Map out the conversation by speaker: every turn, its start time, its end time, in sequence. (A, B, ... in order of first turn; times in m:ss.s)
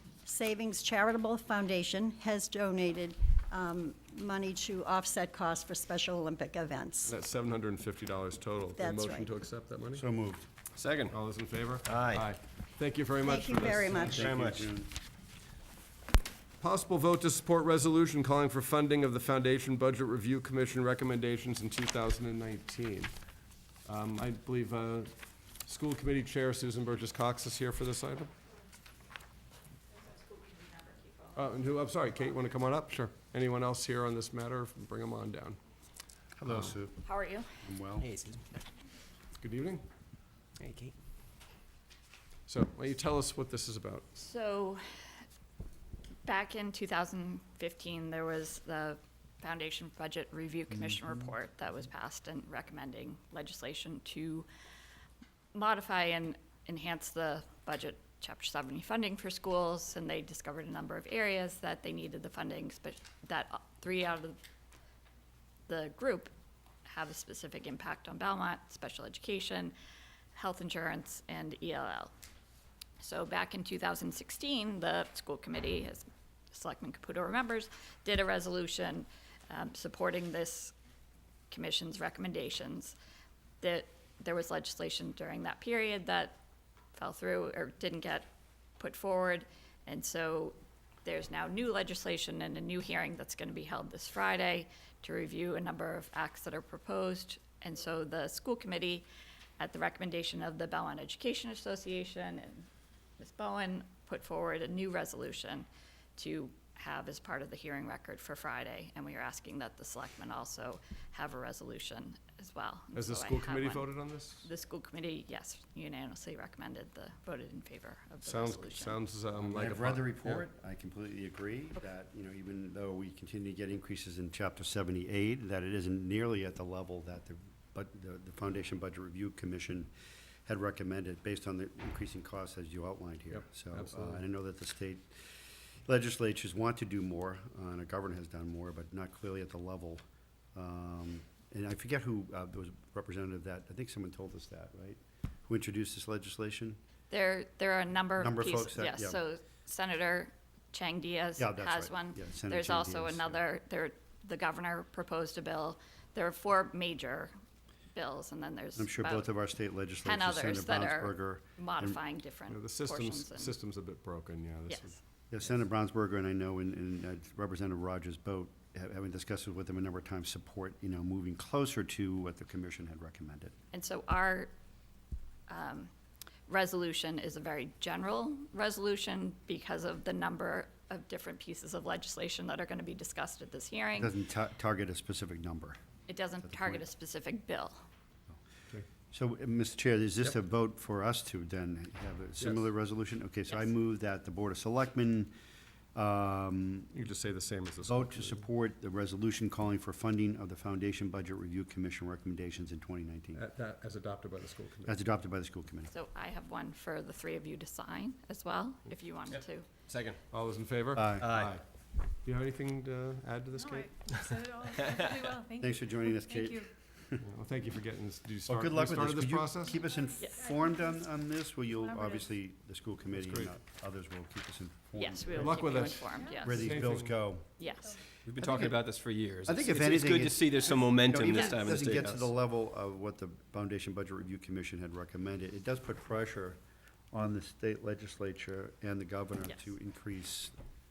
0:00.2-0:07.1 A
0:07.0-0:10.0 B
0:08.8-0:09.3 A
0:09.9-0:10.5 C
0:10.8-0:11.1 D
0:11.1-0:14.1 B
0:11.8-0:12.3 D
0:13.2-0:14.3 A
0:13.9-0:14.9 C
0:14.0-0:14.7 D
0:16.6-0:23.1 B
0:23.8-0:25.1 B
0:25.6-0:28.3 B
0:31.3-0:35.6 B
0:36.4-0:37.0 C
0:37.0-0:37.5 E
0:37.6-0:38.1 C
0:38.0-0:38.6 D
0:39.4-0:39.8 B
0:40.6-0:40.9 D
0:42.5-0:44.1 B
0:44.1-0:45.2 E
0:46.2-0:54.5 E
0:50.7-0:51.3 C
0:55.5-1:04.4 E
1:05.7-1:06.3 E
1:06.8-1:09.7 E
1:10.3-1:12.1 E
1:13.0-1:20.7 E
1:21.5-1:23.0 E
1:23.6-1:26.4 E
1:26.9-1:39.1 E
1:39.6-1:42.7 E
1:43.2-1:53.9 E
1:52.9-1:54.5 B
1:54.4-1:59.0 E
1:58.2-2:00.4 B
1:59.4-2:09.9 C
2:10.4-2:20.0 C
2:13.4-2:14.2 B
2:20.5-2:26.8 C
2:27.1-2:37.3 E
2:28.2-2:29.2 C
2:31.4-2:33.4 C
2:37.9-2:39.3 E
2:38.8-2:42.0 C
2:40.0-2:43.6 E
2:42.5-2:45.0 B
2:44.7-2:45.0 E
2:45.3-2:53.5 C
2:53.7-2:54.5 E
2:55.5-2:55.9 E
2:56.5-3:04.1 E
3:04.0-3:05.8 C
3:06.1-3:07.8 E
3:06.4-3:06.8 C
3:09.1-3:15.3 C
3:12.4-3:12.7 B
3:15.9-3:16.9 C
3:16.9-3:18.4 B
3:17.8-3:23.4 C
3:23.4-3:25.0 B
3:24.8-3:25.9 C
3:25.9-3:29.7 E
3:29.3-3:30.2 D
3:30.3-3:31.6 B
3:30.9-3:31.3 C
3:31.2-3:31.6 D
3:32.2-3:33.9 B
3:33.6-3:36.7 F
3:35.6-3:37.2 C
3:37.2-3:39.7 B
3:38.5-3:45.6 C
3:39.6-3:42.3 F
3:43.1-3:43.5 B
3:45.0-3:46.7 E
3:45.4-3:47.1 B
3:46.0-3:46.8 F
3:46.4-3:47.5 C
3:47.6-3:47.9 E
3:47.7-3:48.0 F
3:48.2-3:52.3 D
3:48.4-3:48.9 C
3:49.4-3:56.6 C
3:51.3-3:51.6 E
3:57.1-4:00.5 C